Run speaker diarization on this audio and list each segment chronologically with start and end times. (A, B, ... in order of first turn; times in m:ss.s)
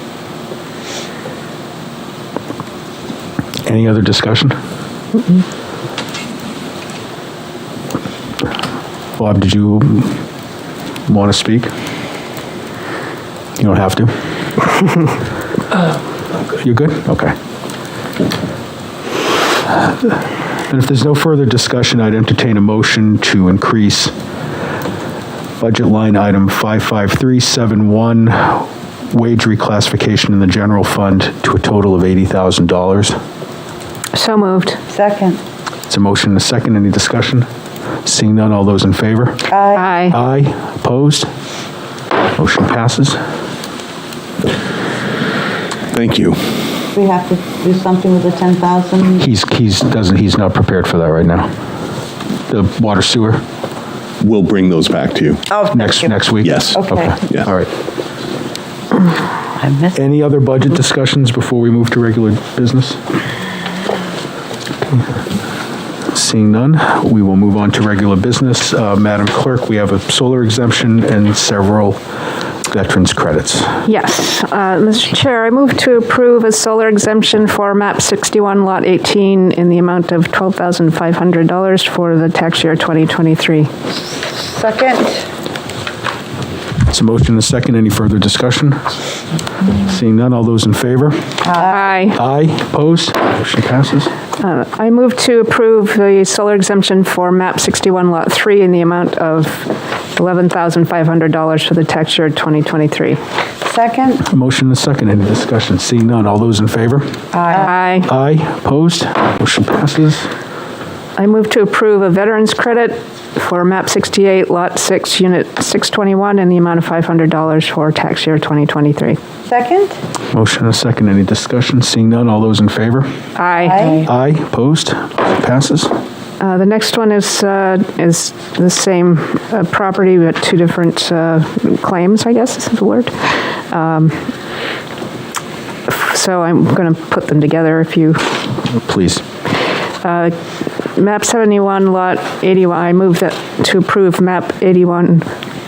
0:03.6-0:04.6 A
0:09.2-0:10.2 A
0:11.1-0:11.7 A
0:13.6-0:14.1 A
0:16.5-0:17.3 A
0:19.8-0:20.1 A
0:20.7-0:24.1 A
0:25.6-0:33.2 A
0:34.1-0:34.8 B
0:34.9-0:35.4 C
0:35.9-0:37.5 A
0:38.0-0:39.5 A
0:39.5-0:39.9 C
0:39.7-0:40.2 B
0:40.1-0:41.3 A
0:42.4-0:43.2 A
0:45.9-0:46.8 D
0:46.9-0:49.2 C
0:49.2-0:51.5 A
0:52.5-0:53.4 A
0:54.2-0:55.5 D
0:55.5-0:56.1 C
0:55.7-0:57.7 A
0:56.4-0:57.5 D
0:56.8-0:57.1 C
0:59.6-0:59.9 C
0:59.9-1:03.0 A
1:06.1-1:12.0 A
1:12.7-1:13.8 A
1:13.8-1:23.7 B
1:24.1-1:25.2 C
1:26.9-1:28.8 A
1:29.8-1:31.5 A
1:31.4-1:31.9 C
1:31.6-1:32.2 B
1:32.1-1:34.1 A
1:34.4-1:43.2 B
1:43.6-1:44.2 C
1:44.2-1:47.1 A
1:47.5-1:47.7 C
1:47.5-1:48.1 B
1:48.0-1:50.3 A
1:51.2-1:59.2 B
1:59.5-2:00.0 C
2:00.3-2:03.1 A
2:03.4-2:04.0 B
2:03.6-2:04.0 C
2:04.0-2:05.9 A
2:06.4-2:14.3 B
2:15.9-2:18.5 B
2:18.8-2:19.2 A
2:20.0-2:20.3 B
2:21.0-2:25.3 B